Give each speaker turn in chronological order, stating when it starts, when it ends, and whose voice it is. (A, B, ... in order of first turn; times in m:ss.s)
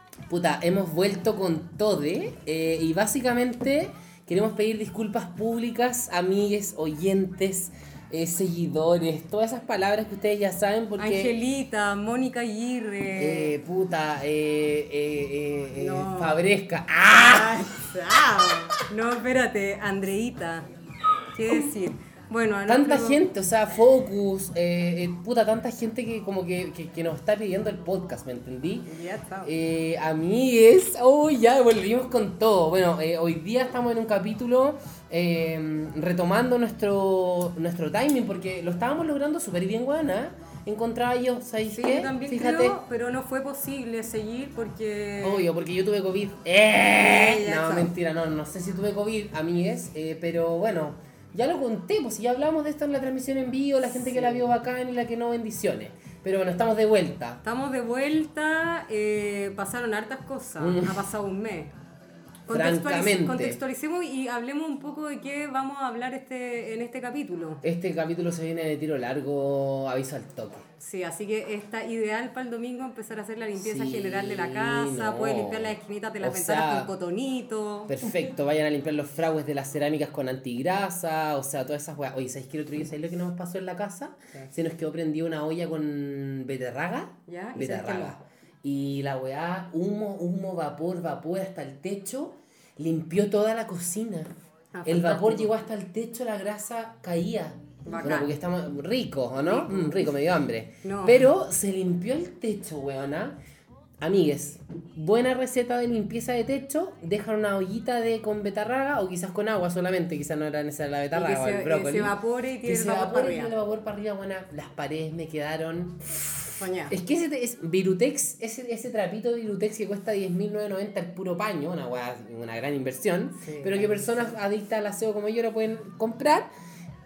0:00.3-0:11.3 A
0:11.0-0:13.5 B
0:13.2-0:17.8 A
0:15.8-0:16.4 B
0:17.1-0:20.7 B
0:21.3-0:23.2 B
0:22.7-0:28.9 A
0:28.9-0:29.5 B
0:29.4-0:42.8 A
0:41.7-0:45.4 B
0:45.2-0:57.4 A
0:47.0-0:47.9 B
0:57.4-1:01.7 B
1:00.6-1:01.0 A
1:02.5-1:07.6 B
1:02.5-1:03.6 A
1:07.6-1:10.6 A
1:10.8-1:18.0 B
1:13.6-1:16.9 A
1:17.9-1:34.3 A
1:27.3-1:28.2 B
1:34.7-1:35.5 B
1:34.8-1:43.4 A
1:37.8-1:38.3 B
1:40.8-1:41.2 B
1:44.0-2:06.5 A
1:51.1-1:53.5 B
1:56.6-1:56.9 B
2:03.4-2:04.3 B